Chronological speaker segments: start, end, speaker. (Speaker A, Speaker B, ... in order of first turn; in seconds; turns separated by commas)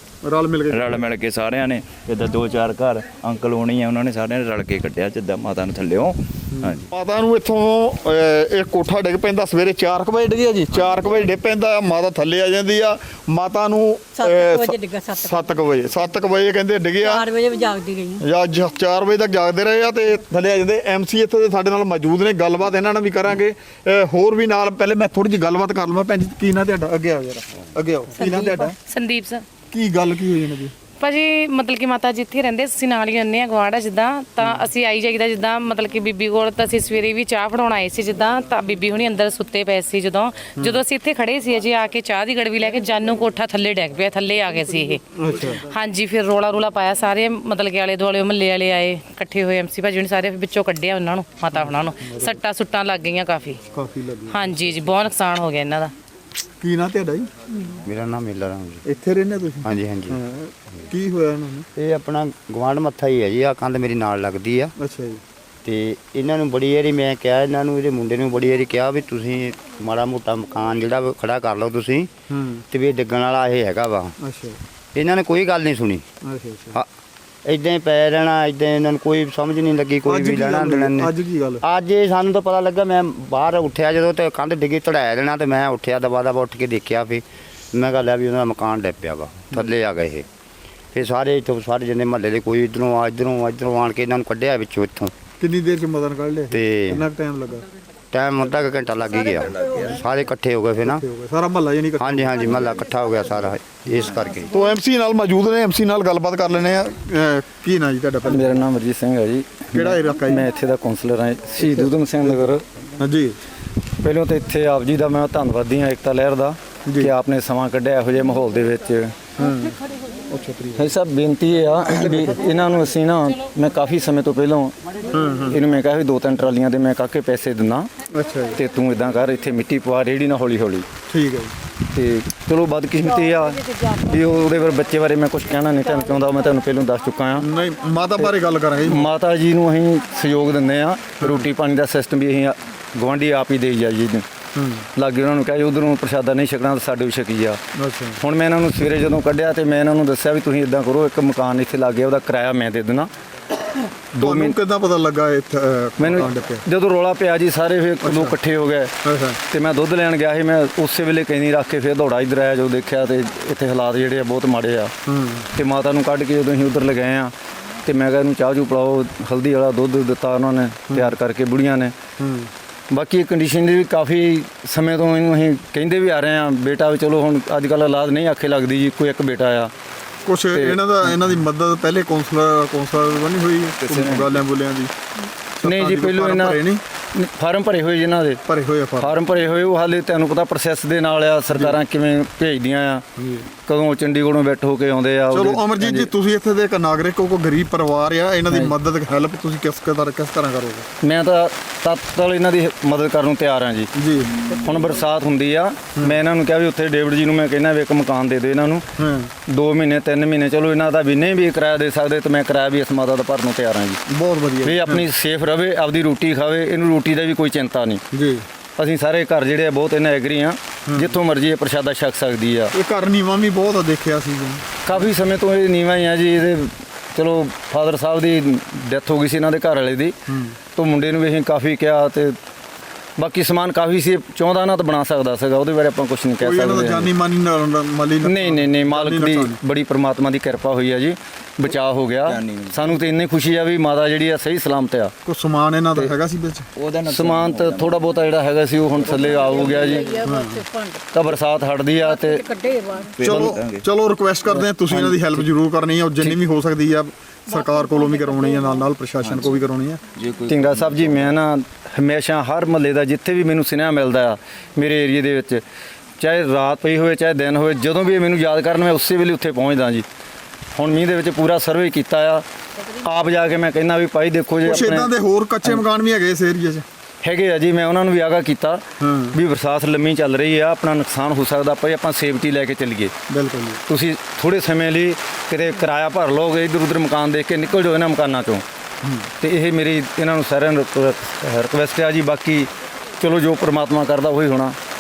Speaker A: 0.2-1.1, Speaker B: 0.7-6.8, Speaker A: 6.5-17.2, Speaker C: 14.2-15.5, Speaker C: 17.0-18.2, Speaker A: 18.2-28.8, Speaker D: 28.2-29.4, Speaker A: 29.7-30.7, Speaker D: 31.0-45.0, Speaker A: 34.4-34.7, Speaker A: 40.6-40.8, Speaker A: 45.1-45.6, Speaker D: 45.7-53.6, Speaker A: 51.5-52.4, Speaker A: 53.7-55.0, Speaker D: 54.3-55.9, Speaker A: 56.6-57.3, Speaker E: 57.8-58.8, Speaker A: 58.8-61.7, Speaker E: 59.6-60.2, Speaker E: 61.7-64.7, Speaker A: 64.8-65.2, Speaker E: 65.6-72.1, Speaker A: 72.3-72.6, Speaker E: 72.7-74.1, Speaker A: 74.2-74.6, Speaker E: 74.9-76.0, Speaker A: 76.2-76.8, Speaker E: 77.4-81.1, Speaker A: 80.0-81.6, Speaker E: 81.6-90.2, Speaker E: 90.9-95.1, Speaker A: 95.4-97.7, Speaker E: 96.5-97.0, Speaker E: 98.1-101.0, Speaker A: 100.8-102.6, Speaker E: 102.0-104.5, Speaker A: 104.5-108.6, Speaker F: 108.3-112.6, Speaker A: 109.7-110.5, Speaker A: 111.6-112.3, Speaker A: 113.0-113.4, Speaker F: 114.0-119.1, Speaker A: 116.8-117.1, Speaker A: 119.4-120.9, Speaker F: 120.8-124.7, Speaker A: 125.1-125.6, Speaker F: 125.5-127.9, Speaker A: 128.1-128.6, Speaker F: 128.5-130.8, Speaker A: 131.1-131.5, Speaker F: 131.9-137.5, Speaker A: 137.4-139.1, Speaker F: 138.8-144.2, Speaker A: 141.2-141.5, Speaker A: 144.5-144.9, Speaker F: 144.9-147.6, Speaker A: 147.8-148.2, Speaker F: 148.2-153.1, Speaker F: 154.1-154.6, Speaker A: 154.2-156.6, Speaker F: 156.0-158.9, Speaker A: 158.0-158.4, Speaker A: 159.0-159.4, Speaker F: 159.5-164.9, Speaker A: 165.1-165.5, Speaker F: 165.6-167.3, Speaker F: 167.8-171.9, Speaker A: 172.2-172.5, Speaker F: 172.9-179.7, Speaker A: 180.2-184.9, Speaker F: 180.5-181.2, Speaker B: 183.8-184.3, Speaker A: 185.6-186.8, Speaker F: 185.6-186.6, Speaker F: 187.1-188.4, Speaker A: 188.4-189.2, Speaker F: 189.0-193.1, Speaker A: 191.5-191.8, Speaker A: 193.2-193.5, Speaker F: 193.6-196.1, Speaker A: 195.3-200.9, Speaker F: 198.5-198.7, Speaker F: 201.0-203.9, Speaker A: 203.9-204.6, Speaker F: 204.6-208.8, Speaker A: 209.0-209.3, Speaker F: 209.5-214.0, Speaker A: 214.1-215.1, Speaker F: 214.6-218.0, Speaker A: 218.1-218.5, Speaker F: 218.8-222.7, Speaker A: 220.9-221.2, Speaker A: 222.7-225.1, Speaker F: 224.8-230.2, Speaker A: 230.3-230.6, Speaker F: 230.7-232.3, Speaker F: 233.2-237.1, Speaker A: 236.4-239.6, Speaker F: 238.2-245.1, Speaker B: 242.2-243.0, Speaker A: 245.2-246.7, Speaker B: 246.8-248.0, Speaker F: 247.1-250.2, Speaker B: 249.1-250.1, Speaker C: 249.3-251.0, Speaker A: 250.2-250.6, Speaker F: 251.1-252.4, Speaker C: 252.0-253.2, Speaker B: 253.2-253.8, Speaker A: 253.2-260.0, Speaker F: 253.2-253.5, Speaker F: 254.9-255.4, Speaker B: 259.2-259.6, Speaker B: 260.1-261.3, Speaker F: 260.5-265.6, Speaker F: 266.2-270.0, Speaker F: 270.8-272.4, Speaker F: 273.0-275.1, Speaker A: 274.6-276.8, Speaker F: 277.2-283.1, Speaker A: 279.0-279.4, Speaker A: 283.3-283.8, Speaker F: 283.9-288.6, Speaker A: 289.0-289.3, Speaker F: 289.4-294.8